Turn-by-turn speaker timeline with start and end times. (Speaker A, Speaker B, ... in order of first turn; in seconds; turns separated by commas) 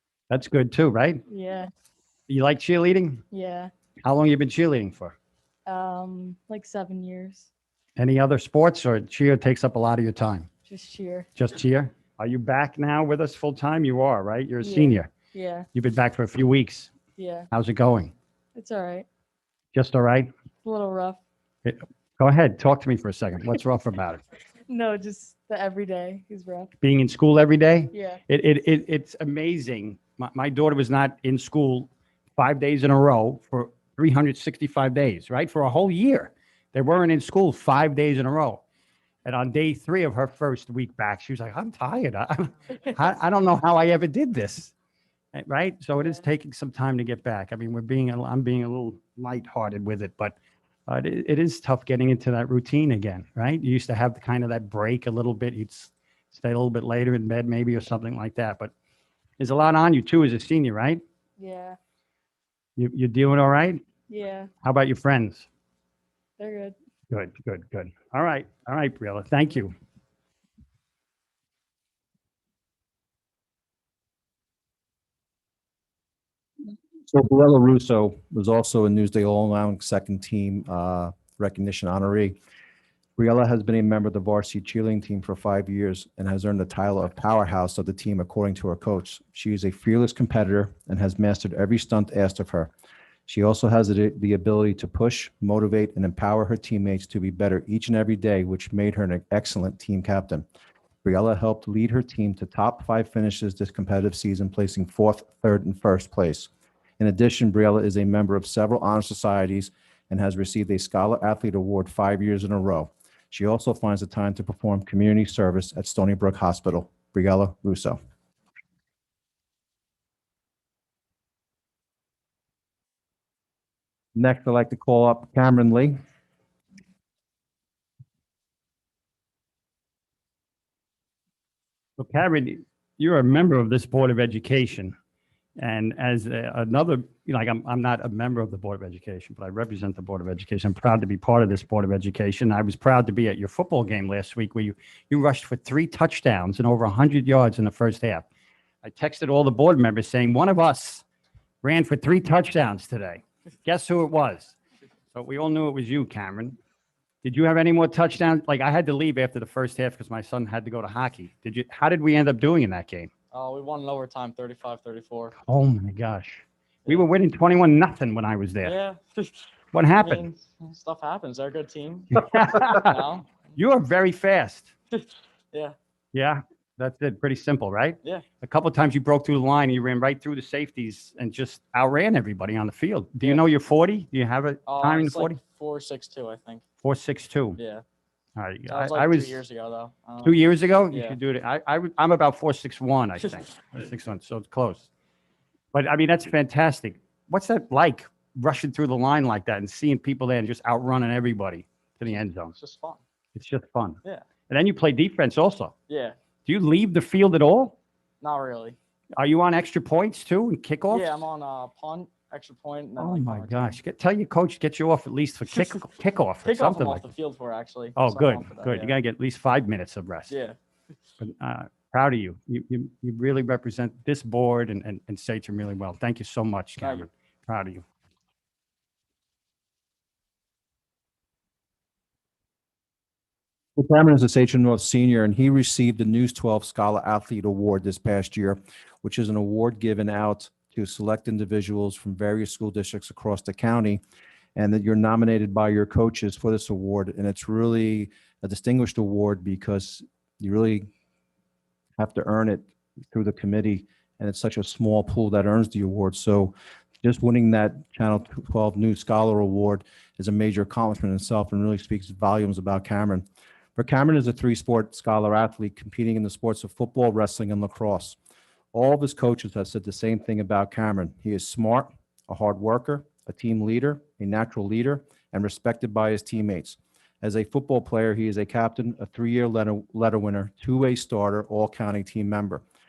Speaker A: 0.3-1.2, Speaker B: 1.3-1.7, Speaker A: 2.3-3.2, Speaker B: 3.3-3.7, Speaker A: 4.0-5.2, Speaker B: 5.7-7.5, Speaker A: 8.0-10.5, Speaker B: 10.7-11.3, Speaker A: 11.3-15.1, Speaker B: 14.6-15.7, Speaker A: 15.7-16.9, Speaker B: 17.2-17.5, Speaker A: 17.5-18.1, Speaker B: 18.6-19.1, Speaker A: 19.7-20.3, Speaker B: 20.6-21.2, Speaker A: 21.6-24.2, Speaker B: 24.7-26.7, Speaker A: 26.8-38.6, Speaker B: 27.9-28.2, Speaker A: 39.2-44.7, Speaker A: 45.3-50.4, Speaker A: 50.9-58.7, Speaker A: 59.4-61.0, Speaker B: 61.4-61.8, Speaker A: 62.8-63.8, Speaker B: 64.1-64.5, Speaker A: 64.6-65.5, Speaker B: 66.4-66.8, Speaker A: 67.1-69.7, Speaker C: 77.1-82.4, Speaker C: 83.2-92.7, Speaker C: 93.3-100.5, Speaker C: 101.0-118.0, Speaker C: 124.2-126.0, Speaker A: 132.0-134.9, Speaker A: 135.6-148.2, Speaker A: 148.8-151.1, Speaker A: 151.6-154.6, Speaker A: 155.1-156.6, Speaker A: 157.2-163.1, Speaker D: 163.3-165.4, Speaker A: 165.4-168.8, Speaker D: 168.6-173.3, Speaker A: 169.7-170.2, Speaker A: 172.1-173.0, Speaker A: 173.6-174.7, Speaker D: 174.9-175.8, Speaker A: 176.1-185.4, Speaker D: 184.7-186.6, Speaker A: 186.8-187.6, Speaker D: 187.6-187.8, Speaker A: 188.4-189.4, Speaker D: 188.7-191.2, Speaker A: 190.2-194.9, Speaker A: 195.7-202.5, Speaker D: 202.1-203.0, Speaker A: 203.3-205.7, Speaker D: 205.9-206.2, Speaker A: 206.4-207.8, Speaker D: 208.2-208.8, Speaker A: 209.2-211.2, Speaker D: 210.9-213.8, Speaker A: 213.0-217.1, Speaker D: 216.4-218.9, Speaker A: 218.0-220.4, Speaker D: 220.3-220.6, Speaker A: 221.2-227.8, Speaker C: 233.8-244.0, Speaker C: 244.6-250.9, Speaker C: 252.0-263.2, Speaker C: 263.8-268.2, Speaker C: 268.7-282.6